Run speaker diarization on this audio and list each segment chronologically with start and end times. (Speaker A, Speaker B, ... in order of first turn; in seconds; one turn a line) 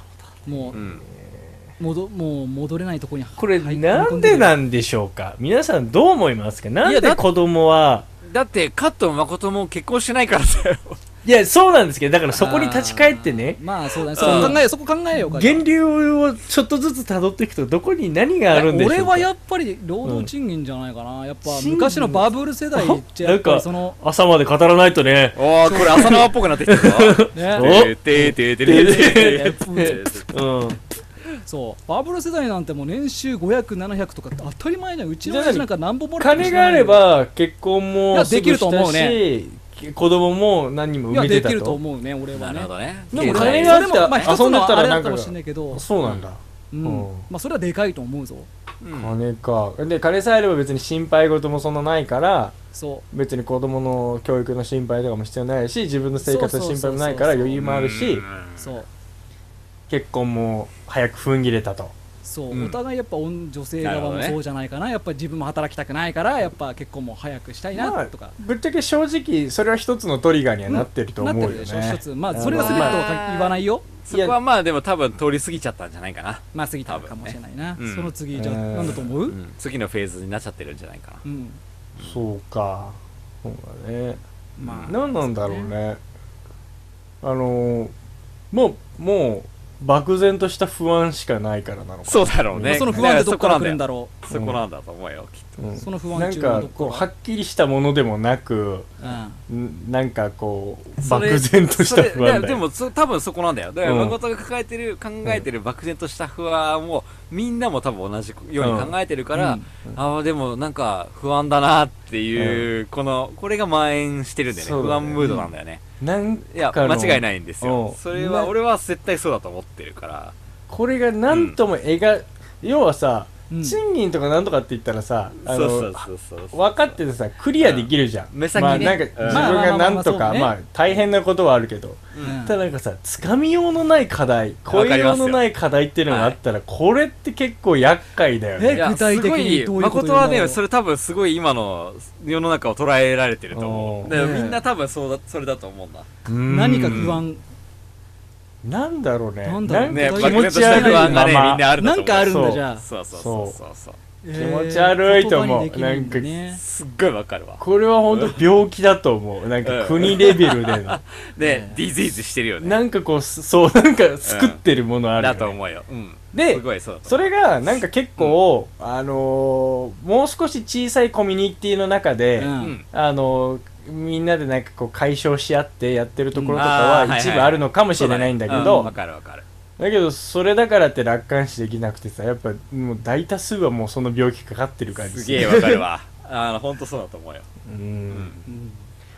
Speaker A: 0.5-1.6
Speaker B: 0.5-0.8
Speaker C: 0.7-1.1
Speaker B: 1.8-4.6
Speaker A: 3.4-8.1
Speaker C: 6.8-7.2
Speaker C: 8.2-11.0
Speaker A: 11.2-13.6
Speaker B: 12.4-15.7
Speaker C: 14.2-14.6
Speaker A: 14.2-14.6
Speaker A: 15.2-19.3
Speaker B: 18.5-24.0
Speaker A: 20.0-20.3
Speaker A: 21.4-30.8
Speaker C: 25.4-30.3
Speaker B: 25.7-26.1
Speaker B: 27.3-27.8
Speaker B: 28.7-30.0
Speaker B: 31.4-37.1
Speaker A: 35.2-41.8
Speaker B: 38.1-39.2
Speaker B: 41.1-45.8
Speaker C: 42.3-44.3
Speaker A: 43.1-47.2
Speaker B: 46.7-48.5
Speaker C: 48.8-49.1
Speaker A: 48.9-52.5
Speaker B: 52.7-53.0
Speaker A: 53.1-58.2
Speaker B: 56.2-57.6
Speaker C: 57.6-58.7
Speaker B: 58.6-58.9
Speaker A: 59.9-61.9
Speaker B: 62.2-68.3
Speaker C: 62.5-62.8
Speaker C: 63.8-64.4
Speaker A: 67.7-73.0
Speaker B: 70.7-73.9
Speaker C: 72.3-78.1
Speaker A: 74.1-74.4
Speaker B: 76.5-79.4
Speaker A: 78.3-79.0
Speaker C: 79.3-81.2
Speaker B: 81.2-81.6
Speaker A: 82.0-84.2
Speaker B: 84.6-85.7
Speaker C: 84.6-84.9
Speaker A: 84.9-86.0
Speaker A: 87.2-87.9
Speaker A: 88.5-93.1
Speaker C: 92.0-95.6
Speaker B: 92.7-94.1
Speaker A: 94.3-94.6
Speaker A: 95.6-98.9
Speaker B: 95.8-97.1
Speaker B: 99.0-99.4
Speaker A: 99.5-102.6
Speaker C: 101.0-115.8
Speaker A: 103.8-104.2
Speaker A: 108.6-109.0
Speaker B: 109.3-109.7
Speaker A: 112.3-112.7
Speaker A: 114.5-115.3
Speaker B: 115.2-115.5
Speaker A: 116.0-118.5
Speaker C: 116.5-120.3
Speaker A: 120.7-138.8
Speaker C: 121.3-121.6
Speaker B: 123.5-123.8
Speaker C: 125.4-127.0
Speaker C: 127.6-129.6
Speaker B: 128.6-130.5
Speaker C: 132.1-132.4
Speaker B: 132.2-132.6
Speaker C: 134.7-135.4
Speaker C: 136.1-136.4
Speaker B: 138.6-140.6
Speaker C: 138.7-146.1
Speaker A: 143.5-144.5
Speaker B: 144.1-144.6
Speaker A: 146.3-147.2
Speaker B: 146.5-147.4
Speaker C: 146.9-147.2
Speaker A: 148.6-151.7
Speaker B: 149.4-152.8
Speaker C: 149.9-154.0
Speaker A: 152.2-153.6
Speaker B: 154.2-156.6
Speaker A: 154.3-156.3
Speaker C: 156.6-158.4
Speaker A: 157.6-161.0
Speaker C: 159.6-162.8
Speaker B: 161.4-161.8
Speaker A: 162.6-165.6
Speaker C: 164.2-164.6
Speaker C: 165.2-167.3
Speaker A: 166.3-178.9
Speaker B: 172.4-172.7
Speaker B: 176.3-176.6
Speaker C: 176.6-179.4
Speaker B: 178.5-178.9
Speaker A: 179.8-185.6
Speaker C: 184.9-187.5
Speaker B: 185.4-185.8
Speaker A: 187.7-188.3
Speaker C: 188.1-188.4
Speaker B: 188.5-188.8